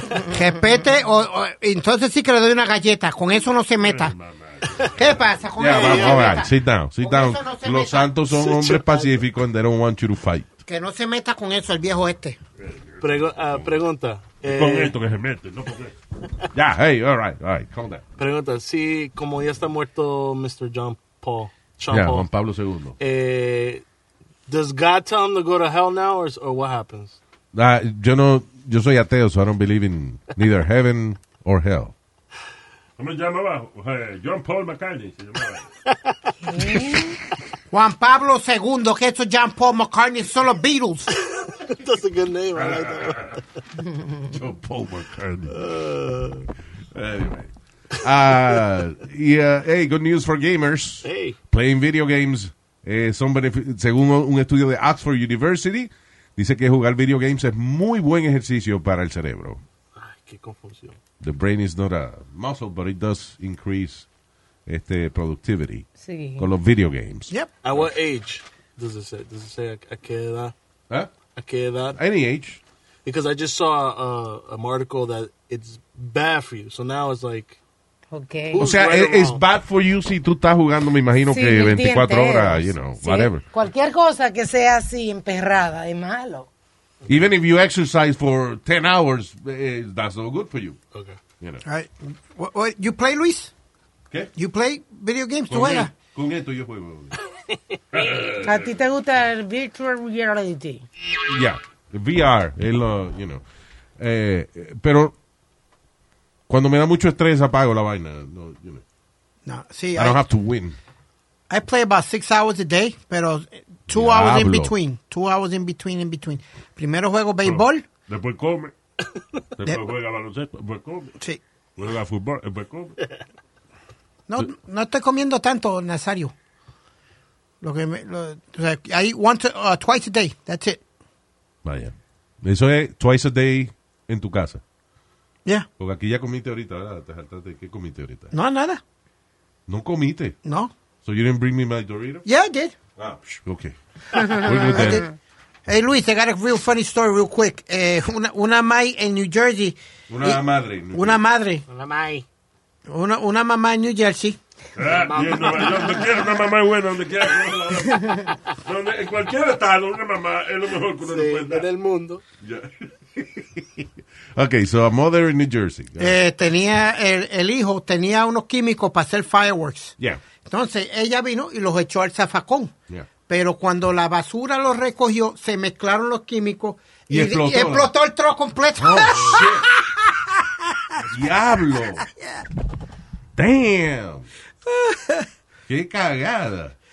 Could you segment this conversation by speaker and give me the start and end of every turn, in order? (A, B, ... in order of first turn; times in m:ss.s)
0:00.3-0:04.1 A
0:03.8-0:05.5 B
0:05.0-0:08.6 A
0:05.6-0:10.5 C
0:05.6-0:06.5 D
0:08.5-0:09.2 D
0:10.6-0:12.4 A
0:12.6-0:13.8 B
0:13.0-0:15.0 D
0:14.4-0:16.0 B
0:16.6-0:18.0 C
0:18.2-0:22.3 D
0:21.9-0:23.0 C
0:23.0-0:23.8 D
0:24.5-0:27.2 D
0:27.5-0:31.9 C
0:33.0-0:35.7 B
0:35.9-0:36.8 D
0:36.4-0:37.2 E
0:37.7-0:41.1 A
0:41.1-0:43.4 D
0:42.6-0:43.2 C
0:44.3-0:45.8 C
0:45.5-0:46.5 D
0:46.9-0:59.6 C
0:51.0-0:51.4 D
1:00.0-1:01.0 D
1:01.2-1:04.1 C
1:04.7-1:05.9 C
1:06.0-1:06.5 E
1:06.4-1:07.3 C
1:07.6-1:10.5 D
1:11.4-1:12.0 D
1:11.9-1:12.6 C
1:13.0-1:17.6 D
1:18.1-1:18.7 E
1:18.5-1:19.4 D
1:18.6-1:23.4 C
1:21.3-1:26.5 E
1:27.1-1:30.8 C
1:30.9-1:31.2 D
1:31.6-1:33.5 A
1:34.4-1:35.9 A
1:35.5-1:37.2 C
1:38.0-1:38.6 B
1:38.4-1:40.8 E
1:41.3-1:43.4 C
1:44.0-1:45.2 C
1:46.5-1:48.8 C
1:49.5-1:50.2 A
1:50.0-1:50.8 C
1:51.5-1:57.8 A
1:53.9-1:54.8 C
1:57.4-1:58.7 B
1:59.6-2:01.2 B
2:01.8-2:03.0 B
2:04.3-2:06.3 A
2:07.6-2:10.8 A
2:11.6-2:14.6 C
2:15.8-2:18.3 C
2:18.3-2:18.8 A
2:19.7-2:20.4 C
2:20.4-2:20.7 A
2:21.0-2:22.3 C
2:22.3-2:22.8 A
2:23.0-2:25.1 C
2:24.3-2:25.1 A
2:25.7-2:30.4 A
2:30.1-2:31.2 C
2:30.9-2:31.6 A
2:31.7-2:32.2 D
2:32.9-2:34.4 A
2:34.8-2:41.7 B
2:34.8-2:36.2 D
2:41.0-2:42.2 D
2:42.4-2:42.9 B
2:43.2-2:46.2 C
2:46.0-2:52.7 A
2:53.3-3:00.1 A
2:57.1-2:57.9 C
2:58.8-2:59.7 C
3:01.0-3:02.1 C
3:02.0-3:02.4 A
3:03.4-3:04.3 C
3:04.6-3:05.3 A
3:05.7-3:06.8 C